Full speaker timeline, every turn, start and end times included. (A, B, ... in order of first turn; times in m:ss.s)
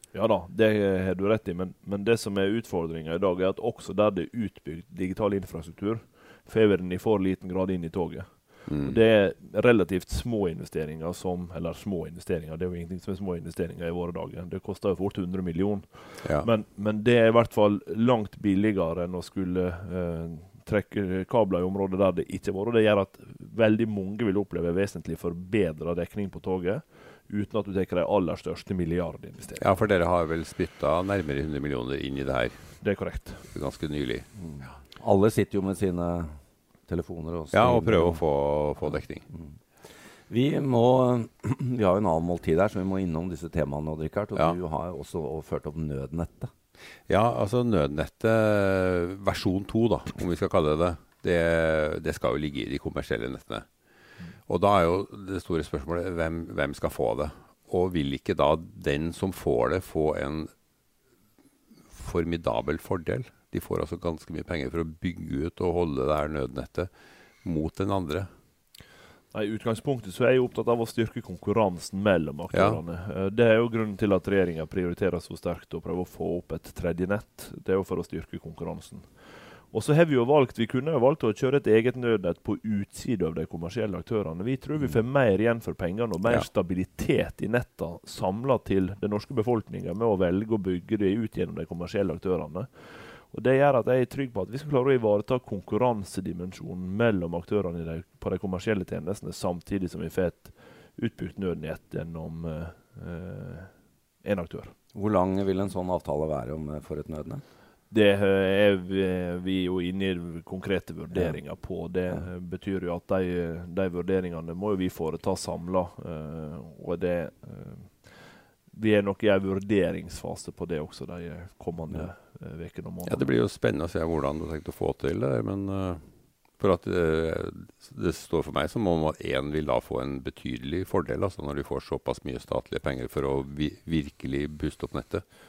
0:00.1-0:29.7 A
0:08.7-0:09.0 B
0:16.2-0:16.5 B
0:29.6-0:34.7 B
0:32.8-0:33.5 A
0:34.4-0:39.6 C
0:37.5-0:39.2 B
0:40.3-0:46.5 C
0:47.1-0:53.7 B
0:54.4-1:00.5 B
1:01.9-1:06.9 B
1:07.4-1:08.3 B
1:09.3-1:44.7 A
1:12.5-1:12.8 B
1:44.9-1:47.4 C
1:47.9-2:03.3 A
1:51.1-1:52.3 C
2:03.1-2:15.2 B